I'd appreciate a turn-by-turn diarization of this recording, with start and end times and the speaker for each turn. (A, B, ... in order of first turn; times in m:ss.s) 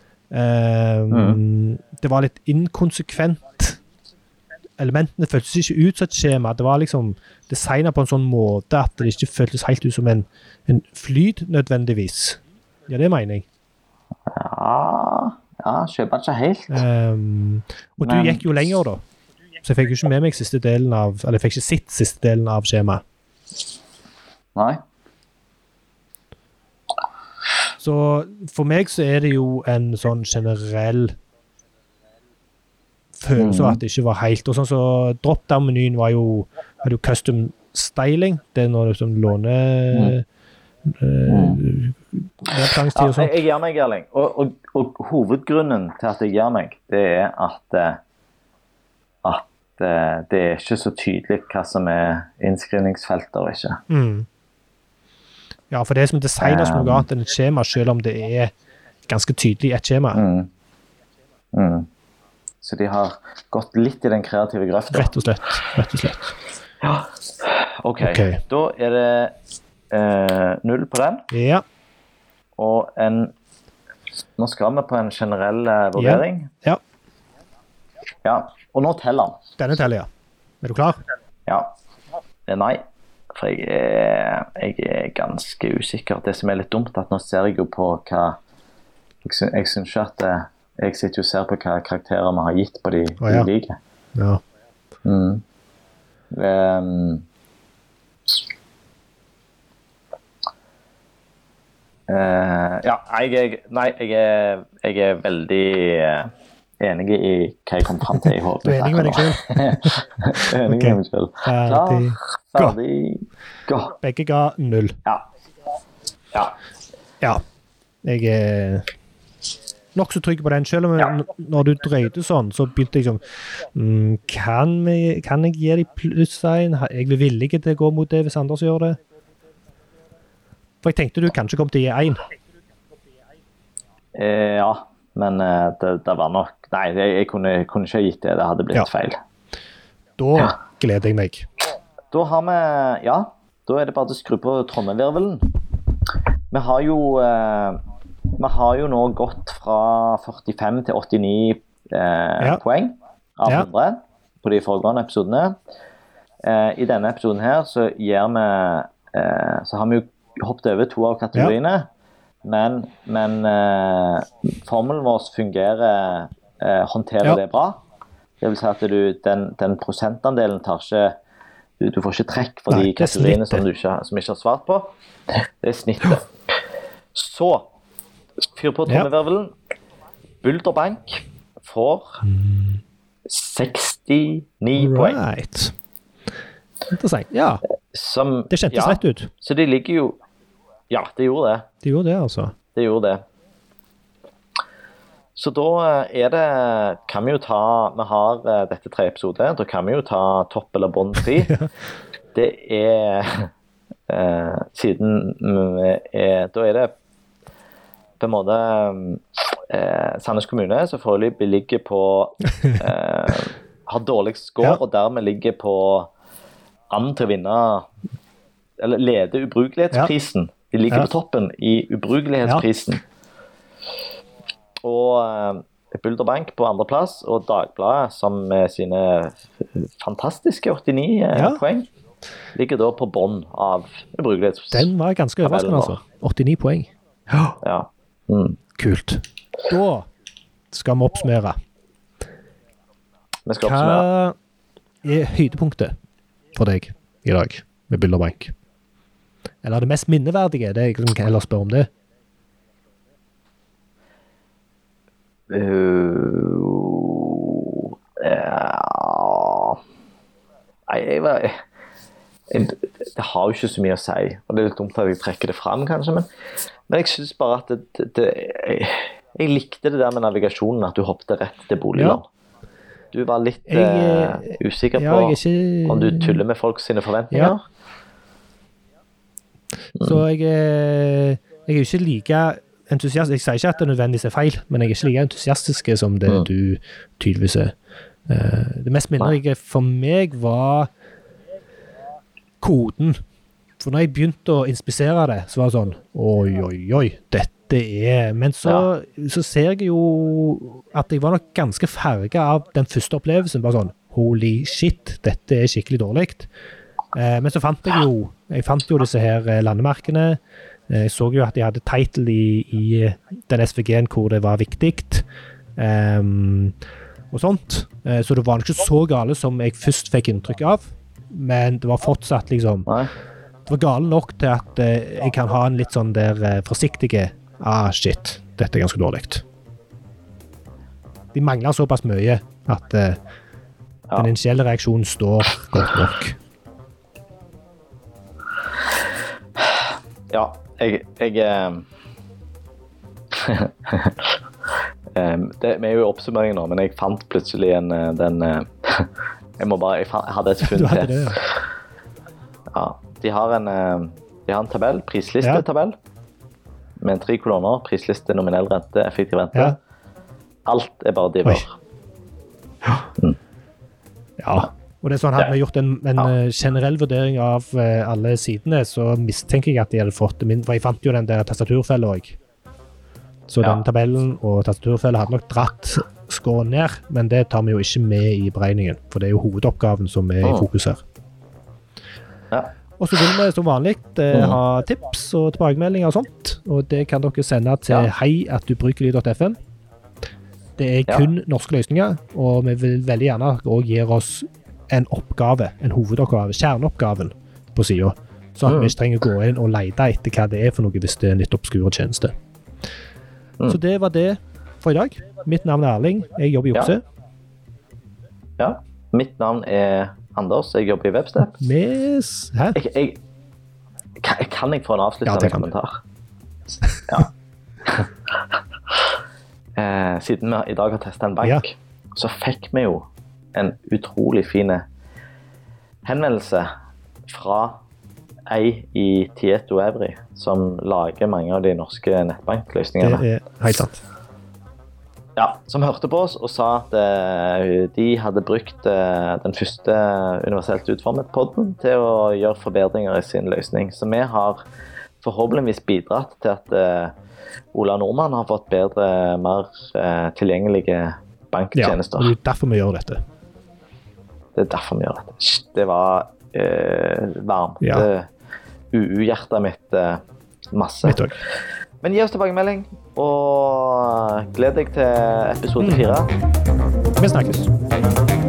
0:00.3-0:03.8 A
0:01.1-0:01.4 B
0:04.8-0:13.4 A
0:14.3-0:16.8 B
0:16.7-0:19.0 A
0:18.0-0:18.4 B
0:19.6-0:23.0 A
0:24.6-0:24.8 B
0:27.8-0:31.2 A
0:33.2-0:40.2 A
0:33.4-0:33.8 B
0:40.9-0:43.3 A
0:41.3-0:41.6 B
0:42.6-0:48.0 B
0:49.2-0:53.8 B
0:53.9-0:54.3 A
0:55.7-0:58.5 A
0:56.4-0:57.1 B
0:59.1-1:00.2 A
1:00.1-1:00.5 B
1:01.5-1:01.9 B
1:02.6-1:05.1 B
1:04.9-1:06.3 A
1:06.8-1:09.3 B
1:08.0-1:08.4 A
1:09.9-1:11.3 B
1:11.3-1:11.6 A
1:12.6-1:13.3 B
1:14.4-1:16.5 B
1:16.0-1:16.8 A
1:18.2-1:19.4 B
1:19.6-1:20.1 A
1:20.6-1:21.0 A
1:21.5-1:21.8 B
1:22.5-1:22.8 B
1:23.3-1:28.4 B
1:29.2-1:33.8 B
1:33.2-1:33.5 A
1:34.2-1:34.4 A
1:35.0-1:35.4 B
1:36.3-1:37.2 B
1:42.1-1:54.0 B
1:48.6-1:50.0 A
1:50.5-1:52.8 A
1:54.0-1:55.0 A
1:58.0-1:58.9 A
2:00.0-2:09.0 A
2:10.8-2:12.2 A
2:14.2-2:19.2 B
2:20.2-2:21.5 A
2:22.1-2:25.5 B
2:26.5-2:27.8 B
2:28.4-2:35.6 B
2:36.4-2:41.9 B
2:42.4-2:47.8 B
2:48.4-2:51.2 B
2:51.8-2:56.3 B
2:52.7-2:53.6 A
2:57.1-2:57.7 B
2:58.6-2:59.6 B
3:00.4-3:02.3 B
3:02.3-3:02.8 A
3:03.3-3:05.2 B
3:04.8-3:05.8 A
3:06.9-3:07.6 A
3:07.9-3:10.2 B
3:08.5-3:09.3 A
3:10.9-3:11.7 B
3:11.8-3:12.6 A
3:12.7-3:13.2 B
3:15.4-3:21.5 B
3:21.3-3:21.7 A
3:22.3-3:23.5 B
3:24.1-3:26.9 B
3:28.2-3:36.1 B
3:36.9-3:37.9 B
3:38.8-3:43.0 B
3:44.8-3:51.9 B
3:51.3-3:51.6 A
3:52.6-3:54.9 B
3:54.7-3:56.9 A
3:55.4-3:56.0 B
3:57.6-3:58.6 B
3:58.8-4:00.1 A
4:00.7-4:01.6 A
4:03.5-4:04.1 B
4:03.6-4:04.4 A
4:05.0-4:06.0 A
4:06.5-4:08.5 A
4:09.6-4:11.9 A
4:15.5-4:19.8 B
4:20.9-4:21.6 B
4:22.5-4:26.3 B
4:26.9-4:32.3 B
4:33.1-4:37.6 B
4:33.7-4:36.4 A
4:40.0-4:47.7 A
4:48.3-4:50.9 A
4:52.6-4:53.2 A
4:53.8-5:06.5 A
5:07.1-5:10.4 A
5:10.9-5:15.2 A
5:15.8-5:16.8 A
5:17.3-5:22.9 A
5:23.7-5:29.4 A
5:31.3-5:33.2 A
5:34.2-5:36.4 A
5:39.6-5:41.9 B
5:43.3-5:44.3 B
5:45.2-5:51.6 B
5:50.6-5:51.4 A
5:52.7-5:56.0 B
5:57.0-5:59.8 B
6:00.7-6:01.8 B
6:04.4-6:12.4 A
6:13.5-6:21.0 A
6:20.4-6:20.7 B
6:23.0-6:29.6 A
6:24.3-6:24.6 B
6:30.8-6:42.3 A
6:38.7-6:39.0 B
6:43.7-6:47.0 A
6:48.6-6:51.6 B
6:51.6-6:52.8 A
6:52.8-6:53.2 B
6:54.2-6:56.0 B
6:55.2-6:55.7 A
6:57.8-6:58.1 B
6:59.8-7:04.9 B
7:06.0-7:06.7 B
7:07.3-7:07.8 B
7:08.5-7:13.2 B
7:13.0-7:14.0 A
7:15.4-7:24.6 B
7:25.2-7:27.1 B
7:27.8-7:32.3 B
7:31.8-7:33.2 A
7:34.6-7:38.3 B
7:37.8-7:38.1 A
7:38.9-7:40.2 B
7:40.7-7:41.3 B
7:41.0-7:41.3 A
7:42.0-7:46.3 B
7:45.8-7:46.1 A
7:47.2-7:47.7 A